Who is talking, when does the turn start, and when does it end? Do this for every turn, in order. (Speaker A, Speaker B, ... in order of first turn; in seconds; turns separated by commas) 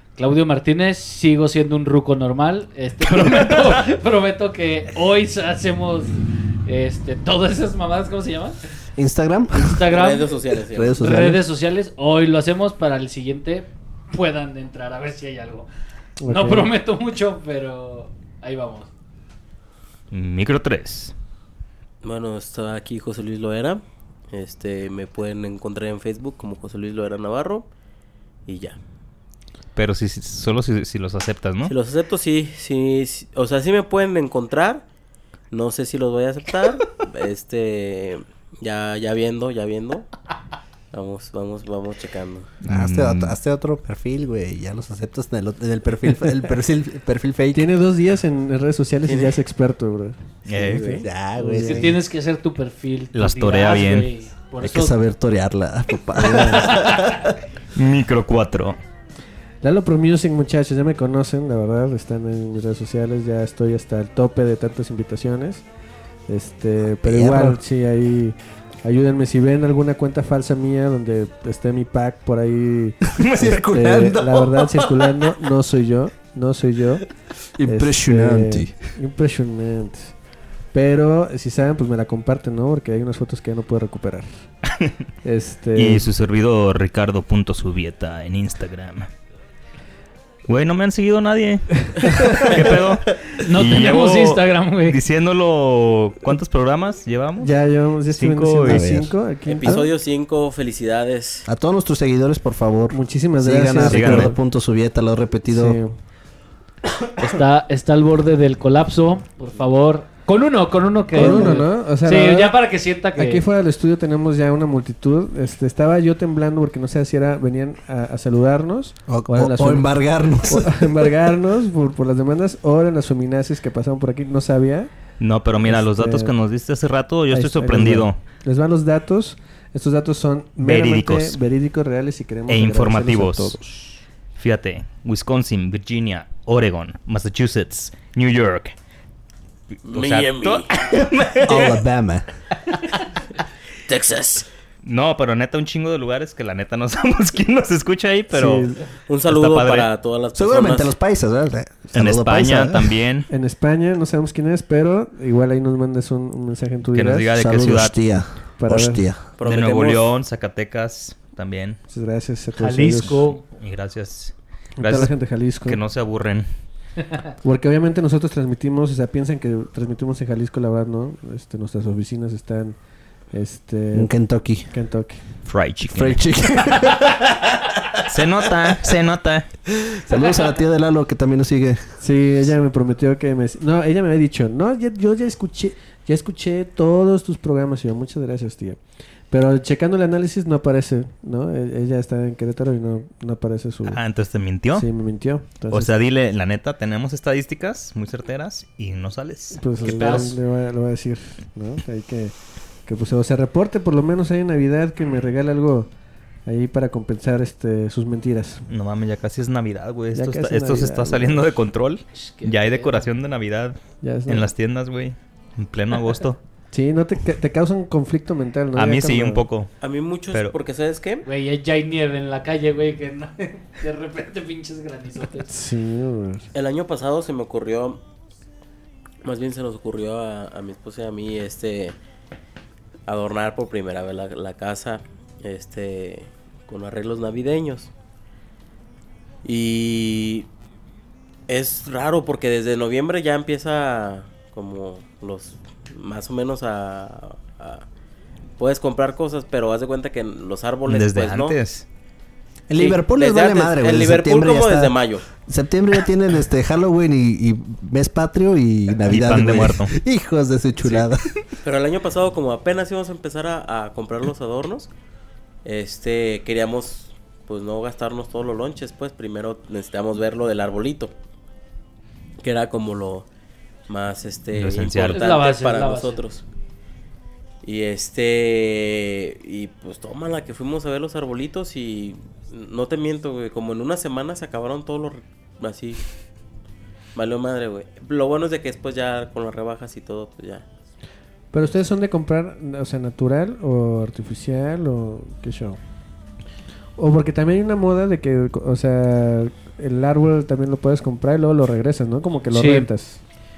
Speaker A: 0.2-8.6, Speaker B: 9.0-9.9, Speaker A: 9.6-10.3, Speaker C: 9.9-11.0, Speaker B: 10.7-11.4, Speaker A: 11.0-15.7, Speaker D: 16.2-16.7, Speaker A: 16.2-18.9, Speaker E: 20.1-21.1, Speaker C: 22.0-27.7, Speaker C: 28.5-28.8, Speaker E: 29.8-31.7, Speaker C: 31.6-34.9, Speaker C: 35.5-40.1, Speaker C: 40.9-42.5, Speaker E: 42.6-43.4, Speaker B: 42.7-47.7, Speaker D: 47.5-52.0, Speaker C: 49.0-49.4, Speaker E: 50.5-51.0, Speaker C: 50.6-50.9, Speaker B: 51.0-51.9, Speaker A: 51.6-55.0, Speaker E: 53.1-54.1, Speaker B: 54.6-57.4, Speaker D: 56.2-56.7, Speaker E: 57.8-58.8, Speaker D: 59.6-65.7, Speaker D: 66.3-77.0, Speaker B: 67.0-67.6, Speaker E: 73.2-73.5, Speaker B: 73.2-75.2, Speaker B: 77.6-78.8, Speaker D: 77.7-80.1, Speaker D: 80.7-84.4, Speaker D: 85.2-86.1, Speaker E: 85.8-89.1, Speaker E: 90.5-97.5, Speaker A: 93.4-95.0, Speaker D: 97.4-99.8, Speaker E: 98.1-98.9, Speaker B: 98.7-99.9, Speaker C: 99.5-101.5, Speaker B: 101.5-105.8, Speaker D: 102.9-104.4, Speaker E: 103.9-104.3, Speaker D: 105.5-106.0, Speaker A: 107.2-113.5, Speaker D: 111.1-112.6, Speaker B: 111.1-111.6, Speaker D: 113.2-124.9, Speaker B: 119.1-121.2, Speaker E: 125.2-128.2, Speaker D: 125.7-126.3, Speaker D: 127.3-133.6, Speaker E: 130.6-131.4, Speaker E: 132.5-138.8, Speaker E: 139.8-141.8, Speaker C: 139.9-140.7, Speaker B: 141.4-142.3, Speaker C: 143.9-144.5, Speaker E: 144.8-148.7, Speaker D: 148.3-148.8, Speaker C: 149.1-150.9, Speaker E: 149.3-149.9, Speaker B: 150.3-153.0, Speaker E: 151.9-153.3, Speaker D: 153.3-157.3, Speaker E: 156.9-158.0, Speaker B: 157.3-159.2, Speaker D: 158.6-159.1, Speaker C: 159.4-160.1, Speaker E: 159.4-161.8, Speaker D: 161.9-163.3, Speaker A: 162.6-163.4, Speaker E: 163.6-166.5, Speaker D: 164.8-165.8, Speaker D: 167.4-172.8, Speaker D: 173.3-174.1, Speaker B: 173.9-174.7, Speaker D: 174.7-175.2, Speaker E: 175.5-176.2, Speaker B: 175.8-177.4, Speaker E: 178.1-179.5, Speaker B: 179.8-182.0, Speaker D: 182.0-188.8, Speaker D: 189.3-194.0, Speaker E: 193.9-194.9, Speaker D: 194.7-195.9, Speaker E: 195.7-200.3, Speaker D: 199.6-202.3, Speaker A: 199.8-200.4, Speaker D: 202.9-205.9, Speaker D: 206.5-208.6, Speaker E: 208.7-216.4, Speaker D: 210.2-211.5, Speaker A: 212.2-213.1, Speaker D: 214.0-214.5, Speaker D: 216.7-219.4, Speaker E: 218.8-219.7, Speaker C: 219.8-221.2, Speaker A: 221.2-225.5, Speaker D: 225.5-226.5, Speaker C: 226.5-228.0, Speaker C: 229.2-232.0, Speaker C: 233.1-237.9, Speaker C: 239.4-240.5, Speaker C: 241.5-247.9, Speaker C: 248.6-251.6, Speaker E: 250.9-251.9, Speaker B: 252.7-261.3, Speaker C: 252.8-255.3, Speaker E: 259.1-260.0, Speaker C: 260.8-261.1, Speaker C: 261.6-264.9, Speaker C: 265.6-271.1, Speaker C: 272.4-273.3, Speaker C: 273.9-276.4, Speaker E: 274.5-275.3, Speaker A: 275.1-276.2, Speaker C: 277.6-286.0, Speaker C: 287.1-290.7, Speaker D: 291.5-295.8, Speaker D: 297.0-303.2, Speaker A: 302.5-302.9